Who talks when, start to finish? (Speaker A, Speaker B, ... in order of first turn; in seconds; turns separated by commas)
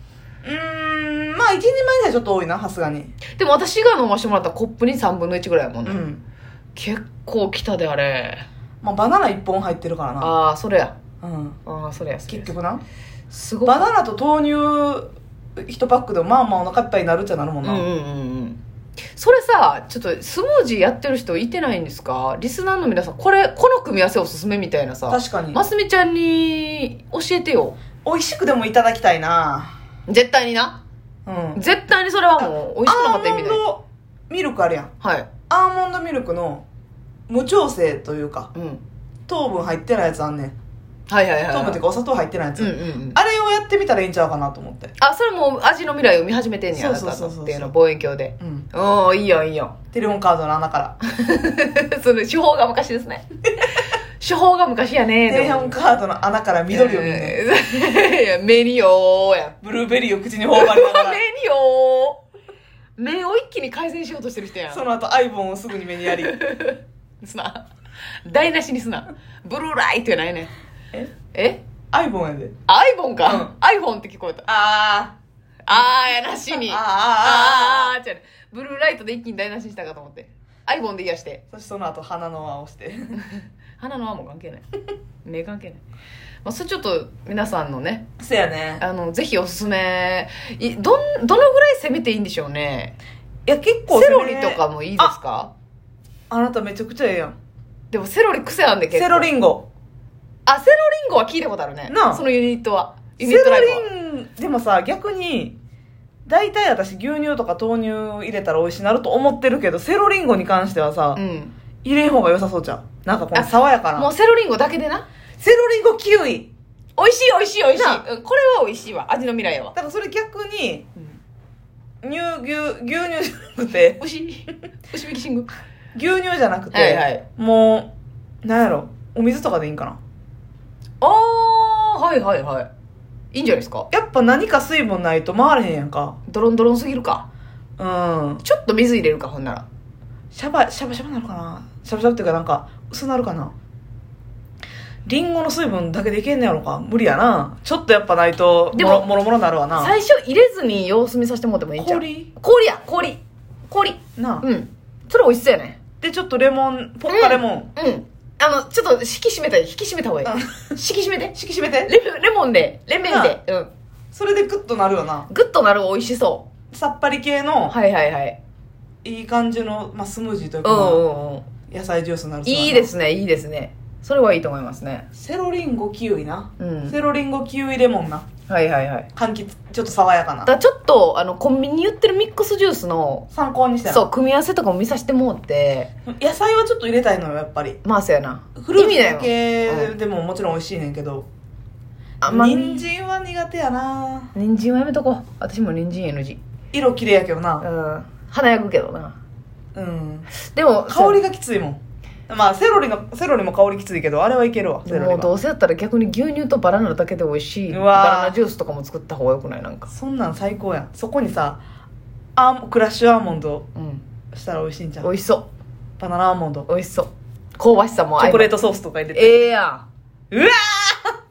Speaker A: 0.4-3.1, Speaker B: 3.3-6.0, Speaker A: 5.8-6.2, Speaker B: 6.7-8.4, Speaker A: 8.8-10.3, Speaker B: 10.2-10.9, Speaker A: 11.2-11.6, Speaker B: 11.7-12.5, Speaker A: 12.3-12.8, Speaker B: 13.3-13.9, Speaker A: 13.6-17.9, Speaker B: 17.6-18.6, Speaker B: 19.2-27.8, Speaker A: 25.1-25.6, Speaker A: 28.0-29.7, Speaker B: 30.1-30.8, Speaker A: 31.2-31.6, Speaker B: 31.5-33.6, Speaker A: 32.4-34.9, Speaker B: 35.0-35.3, Speaker A: 35.5-36.6, Speaker A: 37.3-38.5, Speaker B: 38.5-38.8, Speaker A: 39.3-40.5, Speaker B: 41.1-41.8, Speaker A: 41.5-44.9, Speaker B: 42.6-43.2, Speaker B: 45.0-49.8, Speaker A: 46.7-47.7, Speaker A: 48.4-48.6, Speaker A: 49.9-50.9, Speaker B: 51.1-55.8, Speaker A: 55.3-57.4, Speaker B: 56.7-59.6, Speaker A: 59.6-61.2, Speaker B: 60.5-62.2, Speaker B: 63.0-64.8, Speaker A: 64.7-66.3, Speaker B: 66.1-67.6, Speaker B: 68.2-70.5, Speaker B: 71.3-71.6, Speaker A: 71.9-72.5, Speaker B: 72.7-74.5, Speaker A: 73.2-73.5, Speaker A: 74.5-75.1, Speaker B: 75.7-81.4, Speaker A: 76.5-77.9, Speaker A: 81.5-83.2, Speaker B: 83.2-84.6, Speaker B: 85.2-85.8, Speaker B: 86.4-88.1, Speaker A: 88.2-88.8, Speaker B: 88.8-93.0, Speaker A: 93.5-95.2, Speaker B: 93.9-95.5, Speaker A: 96.3-97.3, Speaker B: 97.9-99.3, Speaker A: 98.9-99.7, Speaker B: 100.5-103.8, Speaker A: 101.9-102.2, Speaker A: 103.2-105.6, Speaker A: 106.2-111.2, Speaker B: 111.2-111.5, Speaker A: 111.8-114.1, Speaker B: 113.3-115.0, Speaker A: 115.4-116.5, Speaker B: 117.0-119.7, Speaker A: 117.7-118.0, Speaker A: 119.7-120.9, Speaker A: 122.0-124.0, Speaker B: 124.0-125.5, Speaker A: 125.9-127.9, Speaker B: 126.7-127.2, Speaker A: 128.4-130.0, Speaker B: 131.0-132.7, Speaker B: 133.3-133.9, Speaker A: 133.9-136.2, Speaker B: 136.3-137.3, Speaker A: 137.8-138.4, Speaker B: 138.4-139.6, Speaker A: 140.3-143.5, Speaker A: 145.1-149.9, Speaker B: 148.7-149.1, Speaker B: 149.7-155.8, Speaker A: 151.8-152.3, Speaker A: 154.2-154.5, Speaker A: 156.0-157.7, Speaker B: 157.1-161.3, Speaker A: 160.2-160.7, Speaker A: 161.3-161.9, Speaker B: 161.8-163.7, Speaker A: 163.0-163.4, Speaker A: 164.1-165.3, Speaker B: 165.3-166.5, Speaker A: 166.7-167.8, Speaker B: 167.7-168.4, Speaker A: 169.0-171.1, Speaker B: 170.6-171.4, Speaker A: 171.7-172.9, Speaker B: 172.4-175.1, Speaker A: 175.1-178.2, Speaker B: 176.6-176.9, Speaker B: 178.5-179.1, Speaker A: 179.1-180.5, Speaker B: 180.4-183.3, Speaker A: 183.3-184.1, Speaker B: 183.8-185.9, Speaker A: 186.1-187.8, Speaker B: 187.8-189.9, Speaker A: 188.6-191.3, Speaker B: 192.2-192.8, Speaker A: 192.2-194.3, Speaker B: 194.3-196.4, Speaker A: 196.7-197.7, Speaker B: 197.6-199.2, Speaker A: 199.7-200.3, Speaker B: 200.4-201.2, Speaker A: 200.9-205.3, Speaker B: 204.8-209.9, Speaker A: 207.7-208.4, Speaker A: 209.9-211.6, Speaker A: 212.3-213.7, Speaker B: 213.7-214.0, Speaker A: 214.3-215.1, Speaker B: 215.0-215.5, Speaker A: 216.0-216.7, Speaker B: 216.7-218.5, Speaker A: 218.2-219.5, Speaker B: 219.1-219.8, Speaker A: 220.3-221.2